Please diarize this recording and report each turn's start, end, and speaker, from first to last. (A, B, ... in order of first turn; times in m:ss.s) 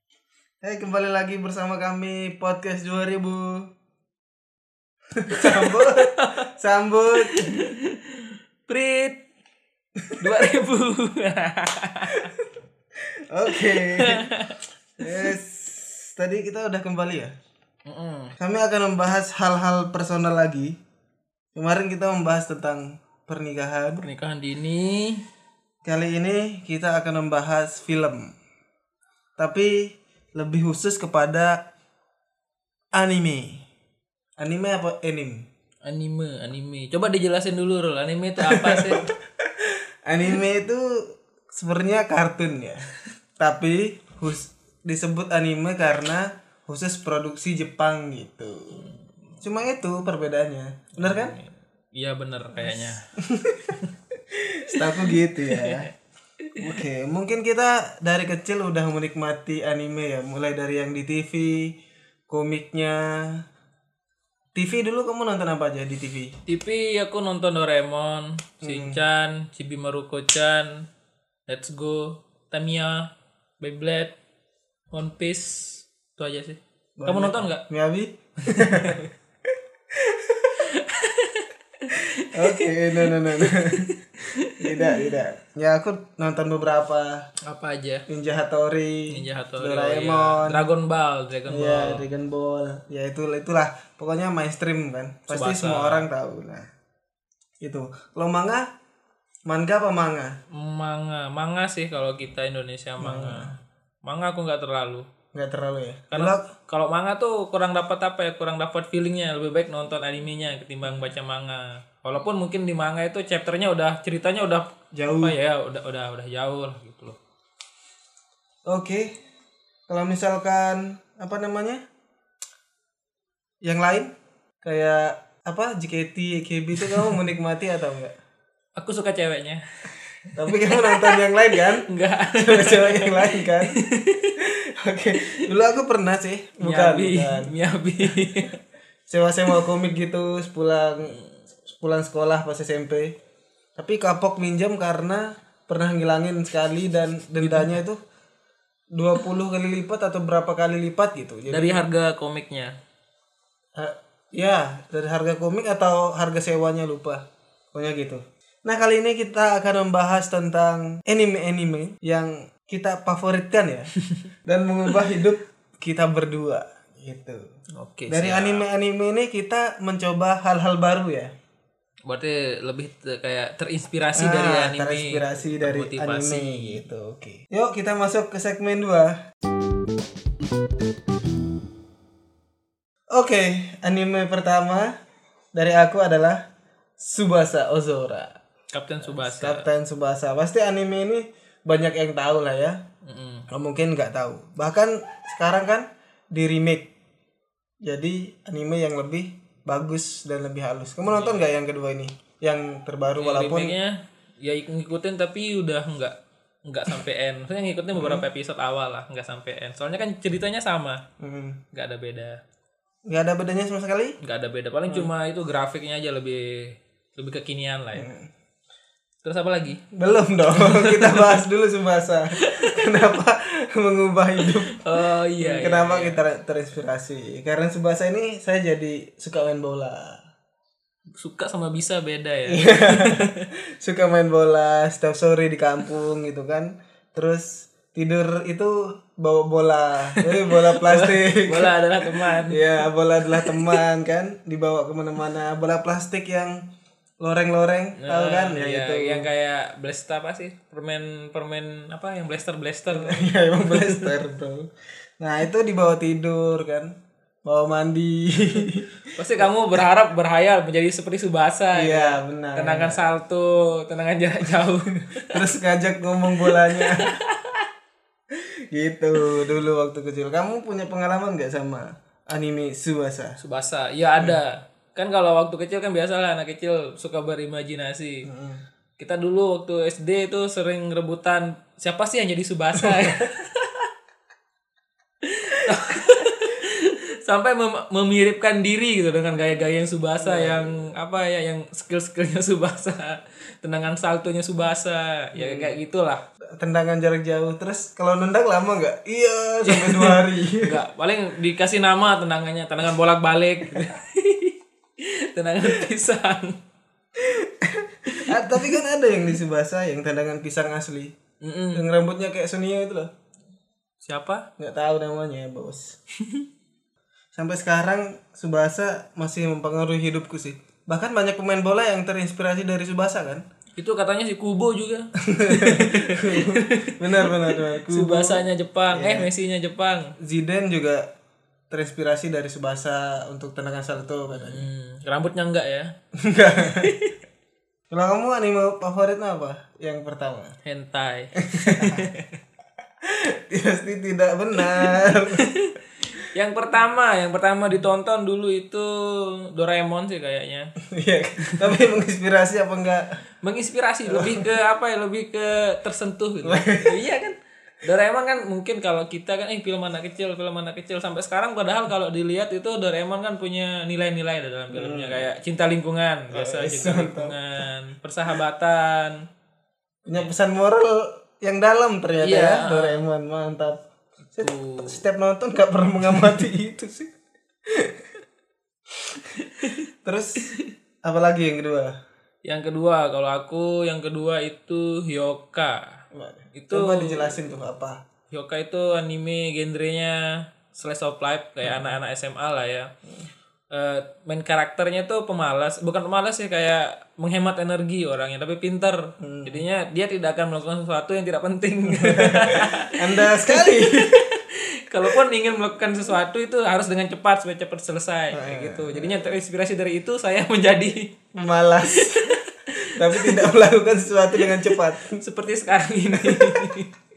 0:00.6-0:03.7 A
0:05.2-0:07.7 A
0:05.3-0:06.4 B
0:07.2-0:09.2 B
0:10.0-0:10.5 A
0:10.2-0:12.3 B
0:13.3-0:14.4 A
0:13.5-0:14.6 B
0:15.0-0:17.3 A
0:17.8-0:18.3 B
0:18.4-0:20.8 A
0:21.6-0:24.0 A
0:24.0-0:25.3 B
0:25.8-0:28.3 A
0:29.4-0:31.6 A
0:33.0-0:33.6 A
0:34.4-0:35.4 A
0:35.8-0:39.1 B
0:38.4-0:48.8 A
0:48.8-0:49.1 B
0:49.4-0:51.4 A
0:51.0-0:53.1 B
0:52.7-0:53.8 A
0:54.3-0:55.9 A
0:54.7-0:56.6 B
0:56.6-1:01.7 A
1:02.3-1:03.4 A
1:04.6-1:06.4 A
1:06.5-1:10.8 B
1:08.6-1:09.0 A
1:11.5-1:14.1 B
1:14.9-1:17.6 B
1:17.0-1:19.0 A
1:18.4-1:19.1 B
1:20.0-1:20.6 A
1:20.6-1:25.2 B
1:22.2-1:27.2 A
1:27.4-1:28.0 B
1:28.1-1:30.7 A
1:29.1-1:32.1 B
1:31.5-1:36.7 A
1:35.3-1:36.1 B
1:37.6-1:38.6 A
1:39.5-1:40.4 A
1:40.5-1:43.5 B
1:43.0-1:43.6 A
1:44.0-1:45.0 B
1:45.3-1:46.5 A
1:46.1-1:57.2 B
1:54.9-1:55.4 A
1:58.7-1:59.1 A
1:59.9-2:01.8 A
2:03.6-2:04.1 A
2:04.6-2:08.1 A
2:06.8-2:07.1 B
2:08.8-2:14.4 B
2:10.3-2:13.8 A
2:14.4-2:18.4 A
2:16.6-2:18.6 B
2:19.1-2:23.1 A
2:23.8-2:28.0 A
2:27.4-2:27.8 B
2:28.9-2:31.8 A
2:31.5-2:32.7 B
2:33.8-2:43.9 A
2:44.4-2:47.4 A
2:47.8-2:48.6 B
2:48.1-2:51.3 A
2:52.0-2:56.8 B
2:54.2-2:59.2 A
3:03.1-3:04.9 A
3:05.5-3:06.4 A
3:07.0-3:08.4 A
3:08.7-3:09.7 B
3:09.0-3:12.8 A
3:13.0-3:13.4 B
3:13.5-3:16.9 A
3:17.8-3:23.8 A
3:21.1-3:21.5 B
3:23.2-3:26.1 B
3:26.7-3:31.0 B
3:27.9-3:28.2 A
3:31.2-3:31.6 A
3:31.7-3:32.4 B
3:33.1-3:34.2 A
3:34.2-3:38.1 B
3:38.0-3:38.3 A
3:39.2-3:39.8 B
3:39.9-3:44.9 A
3:40.5-3:41.4 B
3:42.4-3:43.0 B
3:44.4-3:46.2 B
3:45.4-3:50.2 A
3:51.1-3:53.4 B
3:52.5-4:06.7 A
4:00.2-4:03.8 B
4:07.2-4:09.2 A
4:08.0-4:14.2 B
4:12.9-4:16.9 A
4:17.4-4:19.5 A
4:19.2-4:25.4 B
4:21.7-4:23.0 A
4:25.2-4:27.2 A
4:26.4-4:27.7 B
4:28.4-4:33.4 A
4:33.4-4:38.2 B
4:38.2-4:38.6 A
4:39.0-4:43.9 B
4:42.8-4:43.2 A
4:45.2-4:56.2 B
4:50.2-4:50.8 A
4:55.4-4:55.8 A
4:56.6-5:00.8 A
4:59.6-5:06.6 B
5:07.2-5:11.2 A
5:08.1-5:08.8 B
5:11.4-5:11.8 B
5:11.7-5:13.1 A
5:14.0-5:14.5 B
5:14.6-5:16.0 A
5:16.2-5:16.4 B
5:17.4-5:23.4 A
5:23.8-5:30.1 B
5:25.2-5:29.3 A
5:30.2-5:31.1 A
5:31.7-5:34.6 A
5:34.3-5:35.9 B
5:36.2-5:36.9 A
5:36.6-5:37.1 B
5:37.9-5:40.6 A
5:40.6-5:42.4 B
5:41.4-5:42.1 A
5:43.0-5:45.5 A
5:44.6-5:50.7 B
5:50.9-5:53.2 A
5:51.4-5:51.8 B
5:53.4-6:09.2 B
5:54.1-5:54.5 A
5:56.4-5:57.0 A
6:04.7-6:05.2 A
6:06.3-6:07.4 A
6:10.1-6:13.8 A
6:12.2-6:13.0 B
6:14.4-6:17.1 A
6:14.4-6:15.0 B
6:17.7-6:18.1 A
6:19.1-6:21.9 A
6:22.4-6:25.8 B
6:26.1-6:28.0 A
6:26.6-6:27.6 B
6:28.3-6:32.9 B
6:31.6-6:32.0 A
6:33.7-6:51.1 B
6:39.2-6:39.6 A
6:41.9-6:44.4 A
6:48.3-6:49.3 A
6:51.3-6:52.4 A
6:51.9-6:53.5 B
6:52.9-6:55.2 A
6:54.4-6:56.9 B
6:56.1-6:56.7 A